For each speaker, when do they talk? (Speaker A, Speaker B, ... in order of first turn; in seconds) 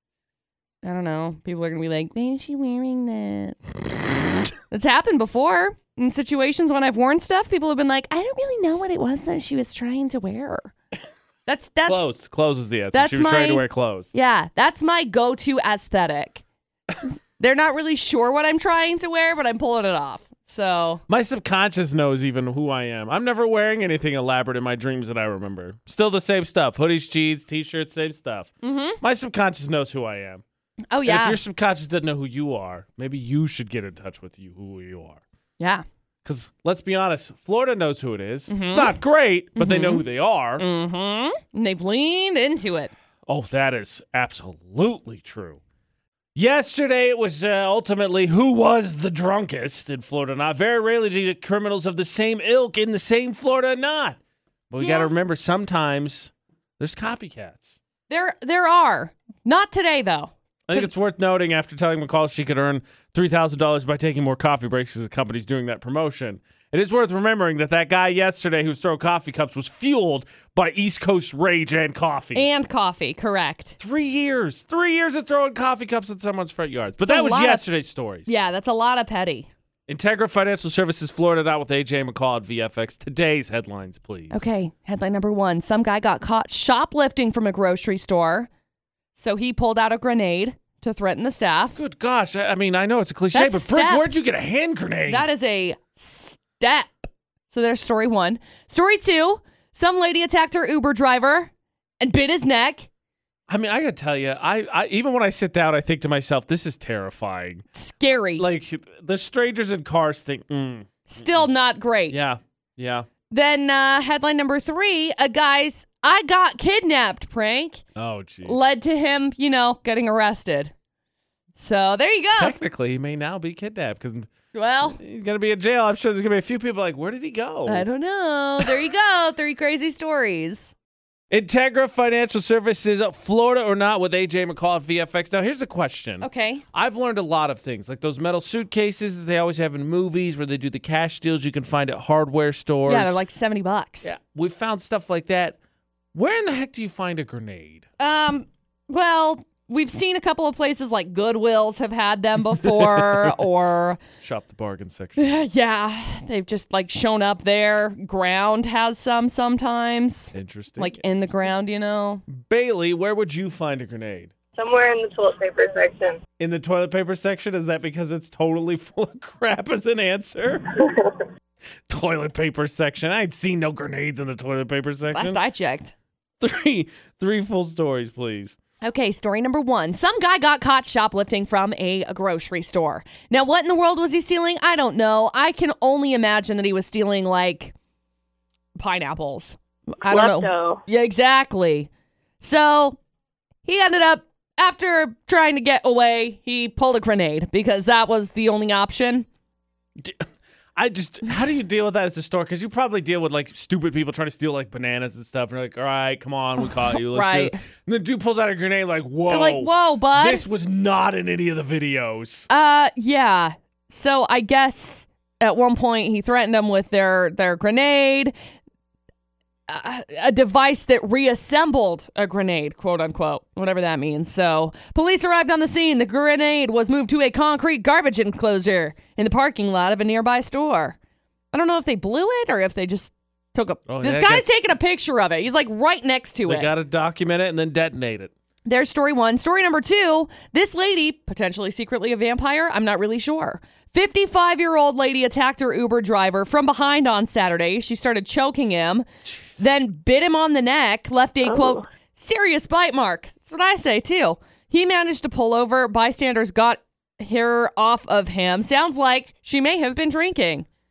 Speaker A: 0.8-3.6, 4.7-10.7, 11.4-12.1, 12.9-16.4, 17.0-21.0, 28.6-29.0, 30.9-31.4, 35.6-35.8, 38.5-39.0, 39.5-40.0, 40.6-42.9, 54.8-55.1, 58.1-60.9, 72.3-73.8, 77.0-77.7, 78.2-79.5, 84.3-88.5, 89.2-91.8, 93.3-94.1, 95.1-102.9, 107.7-108.4, 111.1-112.2, 113.3-117.8, 118.4-120.7, 121.5-122.5, 124.5-125.0, 127.7-130.7, 136.2-136.6, 142.9-144.1, 148.0-154.0, 155.2-162.2, 175.1-175.9, 178.8-187.7, 188.8-191.9, 192.4-193.0, 193.6-199.3, 206.8-207.6, 209.3-210.4, 212.5-218.3, 219.7-231.0, 231.5-236.7, 238.6-249.1, 249.6-260.7
Speaker B: 11.8-14.1, 21.1-30.4, 31.0-35.2, 36.2-40.6, 43.3-45.6, 46.3-54.2, 54.7-57.8, 60.7-72.5, 73.8-78.3, 79.9-84.5, 91.8-95.3, 103.5-107.6, 108.4-111.5, 112.1-113.1, 118.0-118.6, 122.4-124.3, 124.8-127.8, 131.3-143.2, 144.0-145.6, 146.1-147.9, 152.6-153.3, 154.2-155.4, 160.3-161.2, 162.3-164.3, 166.4-170.7, 171.9-175.4, 176.4-178.6, 200.0-212.5, 233.9-234.4, 236.4-238.3, 249.2-249.6
Speaker C: 164.6-166.2, 190.0-190.8